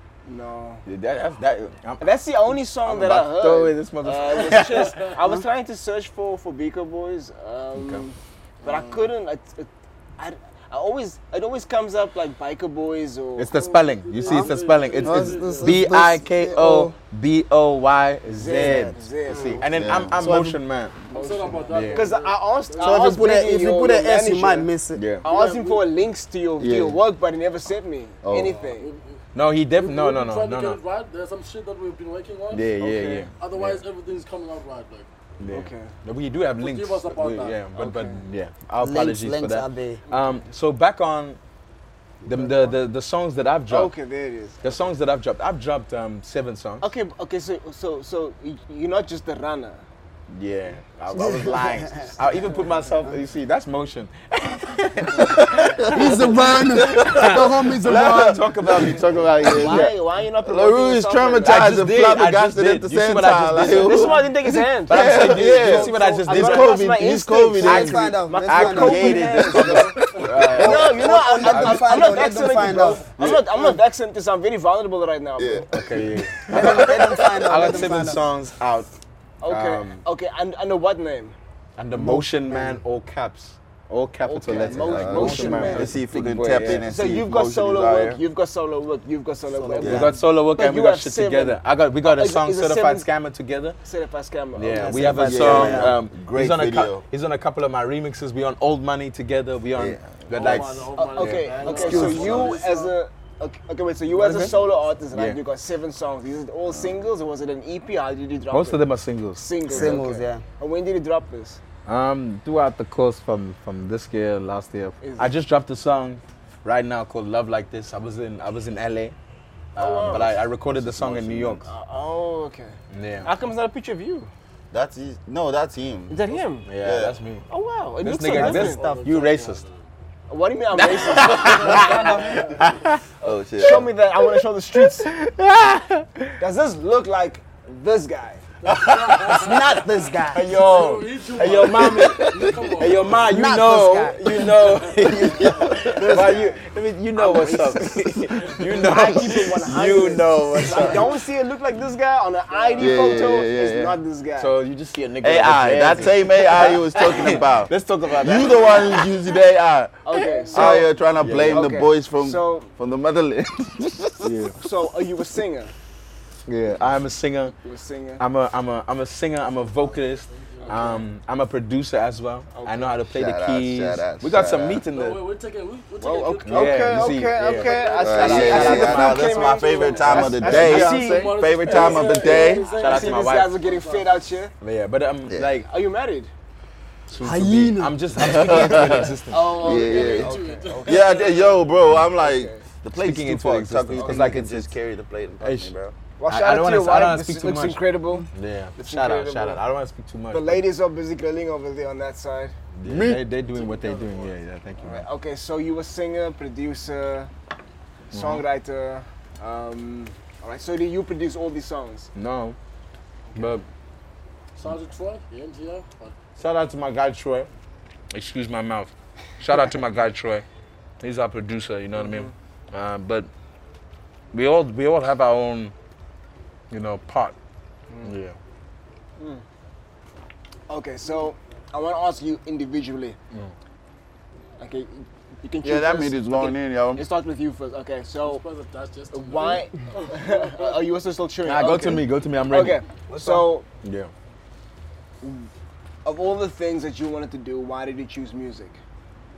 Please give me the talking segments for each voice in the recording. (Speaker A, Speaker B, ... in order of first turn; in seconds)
Speaker A: 0.2-0.8, 2.0-13.5, 18.3-20.0, 21.1-24.7, 25.2-28.9, 32.8-33.3, 35.5-35.9, 37.7-38.2, 43.7-44.8, 46.8-49.8, 59.4-61.7, 63.6-70.0, 70.6-75.7, 79.4-81.3, 84.2-85.9, 86.7-93.1, 93.8-95.8, 100.9-111.6, 115.0-115.3, 119.8-120.4, 121.6-124.3, 126.1-126.7, 127.5-128.8, 130.3-132.4, 133.2-135.1, 136.4-138.4, 145.7-148.1, 148.7-154.5, 160.0-162.7, 164.6-165.7, 167.6-168.2, 170.6-171.0, 172.5-172.9, 176.0-184.5, 185.6-186.3, 189.3-192.6, 193.9-194.2, 196.2-199.6, 200.3-202.5, 204.8-207.3, 208.1-212.1, 213.3-213.6, 222.0-222.3, 230.7-233.2, 234.6-238.4, 239.1-243.7, 245.2-245.5, 246.0-248.8
Speaker B: 0.8-2.1, 2.8-5.0, 7.7-8.1, 13.4-21.0, 21.7-22.1, 24.9-25.2, 29.3-30.8, 32.5-33.8, 35.4-41.4, 42.2-43.9, 44.6-46.9, 50.3-59.9, 61.4-64.2, 64.9-66.8, 67.6-72.0, 75.7-78.9, 79.4-80.0, 81.8-86.9, 89.8-93.8, 94.5-102.2, 105.1-105.4, 108.5-109.9, 111.8-119.1, 119.8-121.7, 122.9-123.3, 126.6-127.4, 128.0-129.6, 130.8-133.0, 134.8-136.4, 138.6-151.1, 154.4-159.2, 160.8-161.7, 164.2-164.5, 166.5-167.5, 168.2-175.2, 176.4-181.0, 182.7-183.5, 184.6-185.7, 187.1-189.6, 192.9-194.7, 195.4-195.7, 196.3-200.6, 202.8-205.1, 208.1-208.4, 212.1-212.6, 213.3-213.6, 216.4-217.5, 218.1-220.4, 221.0-223.3, 224.3-225.7, 226.7-227.3, 228.0-228.4, 241.4-244.1
Speaker C: 8.6-9.1, 13.5-16.9, 21.1-23.2, 25.2-25.8, 28.4-29.2, 29.7-32.7, 33.3-35.1, 36.6-37.6, 100.3-102.9, 128.4-129.8, 131.1-132.6, 138.6-139.8, 140.3-143.4, 144.6-145.8, 152.5-153.0, 170.3-171.0, 174.9-184.2, 189.4-191.4, 203.5-204.3, 214.6-216.2, 238.2-240.8
Speaker D: 14.2-16.9, 18.5-20.6, 22.8-25.0, 38.8-40.0, 42.2-42.7, 51.1-52.2, 55.9-58.4, 67.6-69.8, 70.4-73.7, 76.5-78.2, 81.9-82.8, 85.1-85.9, 89.5-90.1, 94.7-96.0, 101.7-102.4, 104.2-104.5, 109.6-110.4, 128.3-129.1, 139.3-140.5, 143.3-144.3, 187.2-188.9
Speaker E: 19.7-20.4, 26.6-27.0, 28.2-28.6, 55.3-56.6, 57.1-64.2, 64.8-68.1, 69.6-70.5, 75.4-77.7, 84.5-88.2, 89.8-90.1, 95.2-97.0, 99.8-100.7, 101.7-102.5, 120.1-121.7, 124.7-127.1, 133.2-133.9, 142.0-142.7, 152.8-154.0, 155.2-159.9, 160.5-164.3, 173.1-174.8, 178.0-182.7, 188.2-195.9, 202.8-203.2, 235.6-237.0